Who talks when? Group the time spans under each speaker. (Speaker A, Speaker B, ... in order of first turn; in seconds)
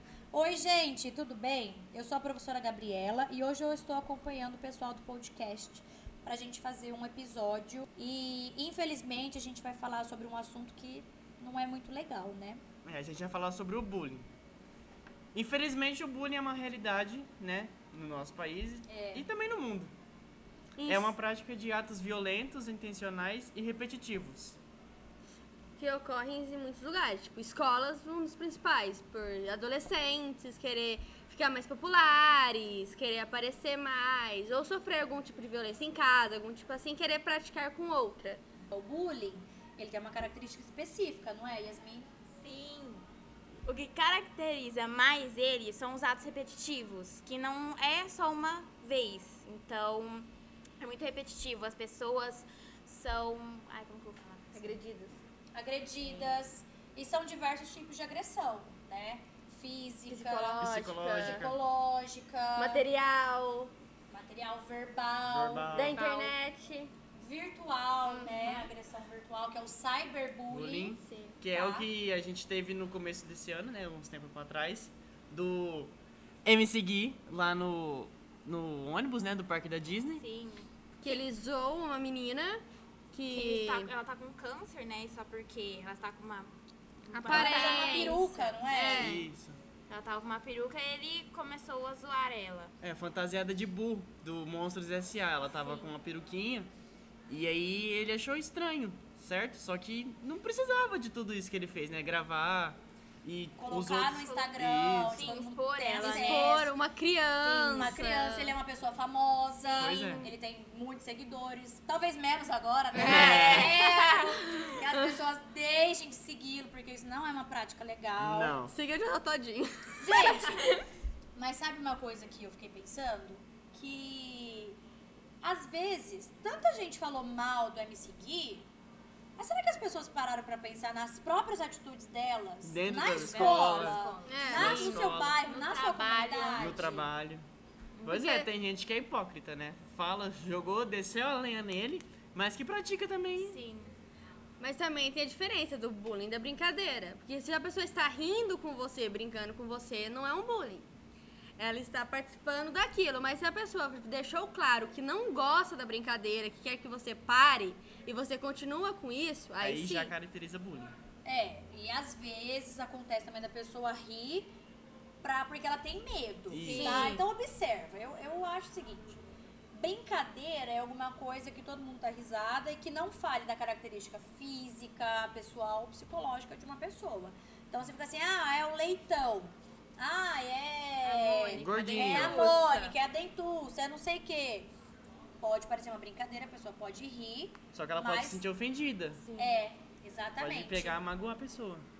Speaker A: 0.3-12.6, 18.9-19.3, 38.7-42.1, 55.5-62.9, 64.1-65.8, 67.2-71.0, 87.3-89.1, 103.6-106.7, 107.4-118.6, 120.0-120.7, 121.3-124.8, 125.4-128.7, 129.4-136.9, 161.2-164.5, 165.2-184.7, 185.4-188.4, 189.4-191.0
Speaker B: 12.8-14.3, 15.3-19.9, 20.9-24.6, 60.6-61.5, 65.3-66.0, 70.5-75.9, 76.4-80.2, 88.9-89.6, 92.8-96.7, 97.3-105.3, 109.8-110.3, 112.9-113.8, 118.2-118.7, 132.6-135.4, 136.5-137.4, 138.0-143.6, 159.6-160.9, 166.5-166.9, 181.6-182.5, 187.7-189.2, 190.4-191.8
Speaker C: 20.8-21.1, 25.8-38.4, 54.5-55.2, 60.1-61.5, 62.5-63.7, 65.7-66.9, 68.0-68.7, 71.0-71.4, 81.0-83.9, 87.1-89.2, 105.9-108.5, 109.7-110.2, 113.0-113.8, 118.7-120.7, 134.2-135.0, 138.1-138.5, 144.6-150.9, 151.6-160.1, 166.7-167.2
Speaker D: 42.4-43.1, 43.6-54.7, 65.9-66.3, 71.5-71.9, 80.1-81.2, 83.3-86.5, 87.1-88.6, 89.9-92.7, 95.5-95.9, 104.2-104.5, 105.2-106.7, 107.5-107.9, 113.7-114.2, 133.1-137.1, 143.4-143.9, 166.6-167.2, 181.0-182.9, 189.2-189.6